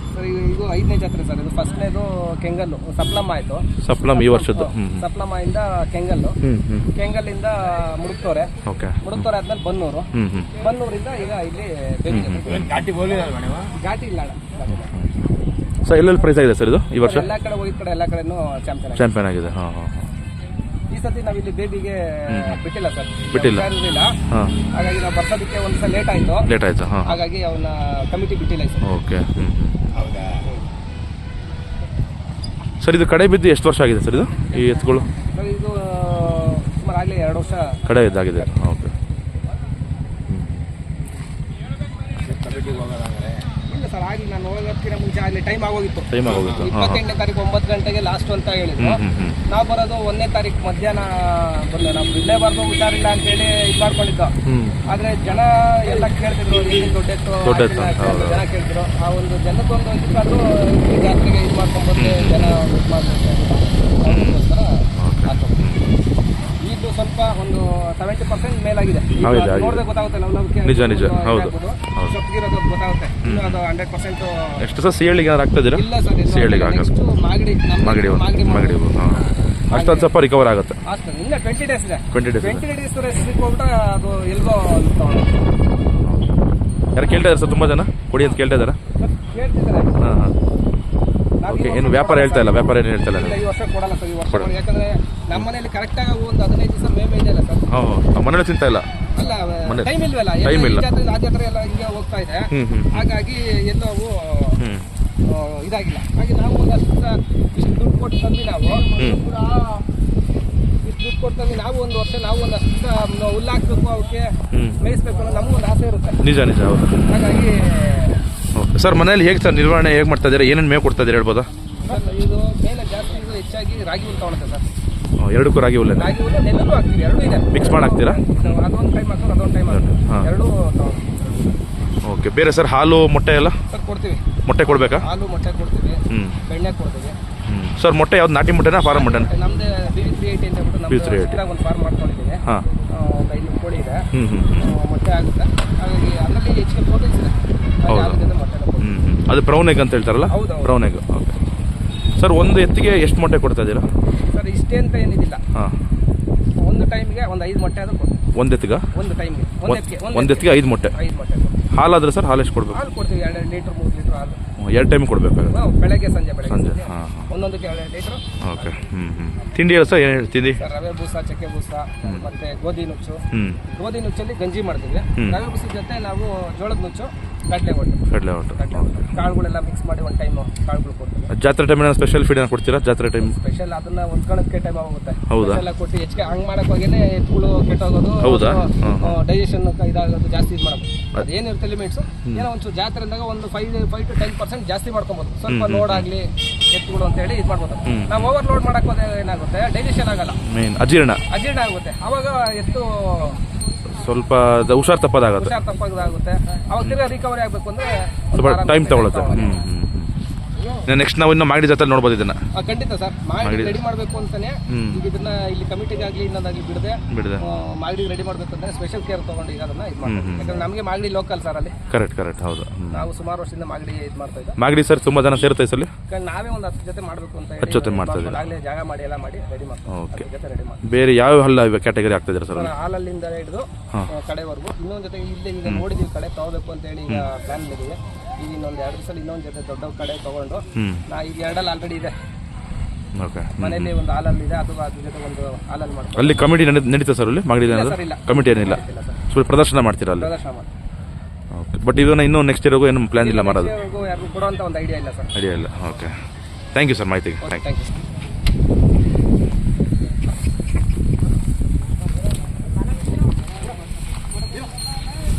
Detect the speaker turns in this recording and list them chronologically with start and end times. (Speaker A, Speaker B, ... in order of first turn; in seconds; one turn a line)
Speaker A: 0.1-6.4
Speaker B: 3.8-5.0
Speaker B: 6.4-6.9
Speaker A: 6.9-12.9
Speaker B: 8.6-9.2
Speaker B: 10.1-10.5
Speaker B: 12.1-12.7
Speaker C: 12.5-13.7
Speaker A: 13.7-14.9
Speaker B: 14.7-15.1
Speaker B: 15.8-17.3
Speaker A: 17.0-19.1
Speaker B: 18.9-20.1
Speaker A: 20.9-24.1
Speaker B: 22.3-22.6
Speaker B: 23.3-23.7
Speaker B: 24.3-24.6
Speaker A: 24.7-26.5
Speaker B: 26.4-27.2
Speaker A: 27.0-28.9
Speaker B: 28.8-29.8
Speaker C: 30.0-30.4
Speaker B: 32.8-35.1
Speaker A: 35.3-37.8
Speaker B: 37.9-38.9
Speaker C: 42.2-43.4
Speaker A: 43.6-65.6
Speaker B: 46.1-47.0
Speaker B: 48.8-49.4
Speaker B: 54.4-54.8
Speaker B: 57.4-58.5
Speaker B: 62.0-62.6
Speaker B: 64.0-64.4
Speaker B: 65.0-65.9
Speaker A: 66.6-74.6
Speaker B: 69.2-69.8
Speaker B: 70.6-72.1
Speaker B: 73.2-73.6
Speaker B: 74.6-76.9
Speaker A: 75.7-78.8
Speaker B: 77.8-80.8
Speaker A: 79.7-80.1
Speaker A: 80.8-85.4
Speaker B: 82.1-82.6
Speaker B: 86.0-86.3
Speaker B: 86.9-88.8
Speaker A: 89.0-89.9
Speaker B: 90.0-90.3
Speaker A: 91.4-97.7
Speaker B: 91.5-93.4
Speaker B: 97.7-98.8
Speaker A: 99.1-104.6
Speaker B: 99.7-100.9
Speaker B: 102.5-103.1
Speaker B: 104.6-104.8
Speaker A: 105.2-109.0
Speaker B: 108.9-109.3
Speaker A: 110.8-116.2
Speaker B: 114.5-114.8
Speaker B: 116.2-117.0
Speaker A: 117.1-118.2
Speaker B: 118.5-121.5
Speaker A: 121.8-124.6
Speaker B: 125.2-126.1
Speaker A: 126.0-131.6
Speaker B: 127.5-128.6
Speaker B: 129.7-130.3
Speaker B: 132.0-133.6
Speaker A: 133.7-137.2
Speaker B: 134.4-135.1
Speaker B: 136.1-136.4
Speaker B: 137.5-139.3
Speaker A: 138.9-148.9
Speaker B: 140.9-141.4
Speaker B: 144.1-144.7
Speaker B: 147.9-148.2
Speaker B: 148.8-151.3
Speaker A: 150.3-150.7
Speaker B: 152.2-153.9
Speaker A: 154.3-155.4
Speaker A: 156.6-158.2
Speaker B: 158.3-158.8
Speaker A: 158.9-161.6
Speaker B: 159.7-160.9
Speaker B: 161.7-162.8
Speaker A: 162.7-164.4
Speaker B: 164.6-165.6
Speaker A: 165.5-168.2
Speaker B: 166.4-167.3
Speaker B: 168.4-170.6
Speaker A: 170.6-181.3
Speaker B: 173.3-173.6
Speaker B: 175.2-175.4
Speaker B: 178.1-179.2
Speaker B: 181.3-183.3
Speaker A: 183.2-200.4
Speaker B: 185.3-185.6
Speaker B: 188.2-189.2
Speaker B: 195.5-196.1
Speaker B: 197.8-198.3
Speaker B: 200.4-201.2
Speaker A: 201.3-203.4
Speaker B: 203.9-205.5
Speaker A: 205.3-209.6
Speaker B: 208.3-210.1
Speaker B: 210.8-212.4
Speaker A: 212.5-221.7
Speaker B: 213.4-213.8
Speaker B: 214.7-215.0
Speaker B: 217.1-217.4
Speaker B: 220.0-220.6
Speaker B: 221.9-223.1
Speaker A: 222.9-224.6
Speaker B: 224.6-225.9
Speaker A: 226.1-230.8
Speaker B: 227.6-228.5
Speaker B: 229.9-230.2
Speaker B: 230.8-232.7
Speaker A: 232.5-242.1
Speaker B: 240.7-241.0
Speaker B: 243.2-243.9
Speaker A: 243.6-246.5
Speaker B: 246.1-250.3
Speaker A: 247.6-249.2
Speaker A: 250.2-250.7
Speaker B: 251.5-253.7
Speaker A: 253.2-255.3
Speaker B: 255.3-256.1
Speaker B: 256.7-257.6
Speaker A: 257.4-257.9